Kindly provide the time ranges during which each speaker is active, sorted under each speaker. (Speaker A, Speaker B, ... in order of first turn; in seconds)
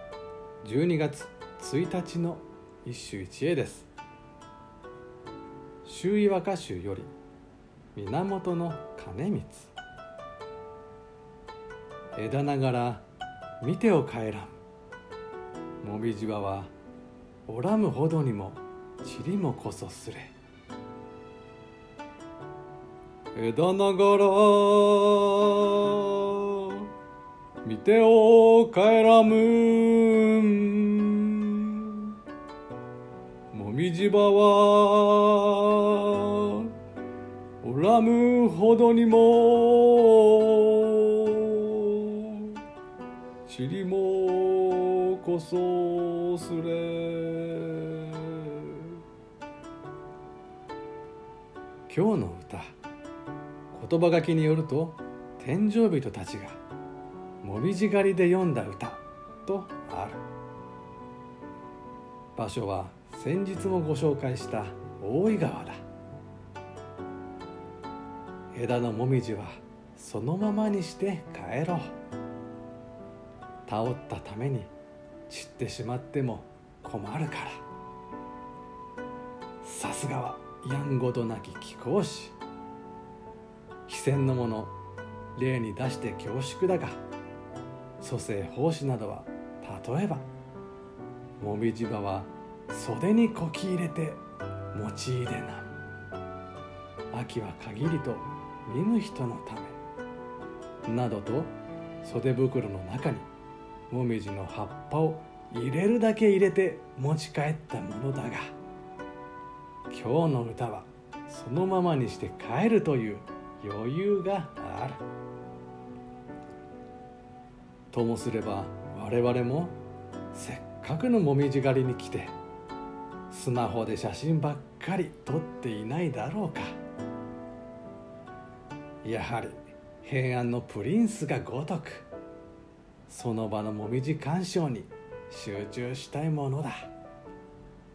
Speaker A: 0.6-3.9, 5.8-7.1, 7.9-9.7, 12.2-13.0, 13.6-14.6, 15.8-16.7, 17.4-20.3, 23.3-26.9, 27.6-32.1, 33.5-36.7, 37.6-42.6, 43.4-49.0, 51.9-52.8, 53.7-56.6, 57.4-60.2, 62.3-65.8, 68.5-71.9, 73.7-74.7, 75.3-77.6, 79.6-82.4, 83.8-84.7, 85.3-87.0, 88.0-90.3, 91.4-94.2, 94.7-95.7, 97.1-99.8, 100.8-103.3, 103.9-108.5, 109.9-115.0, 117.9-119.8, 120.3-122.3, 123.3-126.8, 129.0-132.1, 133.1-136.9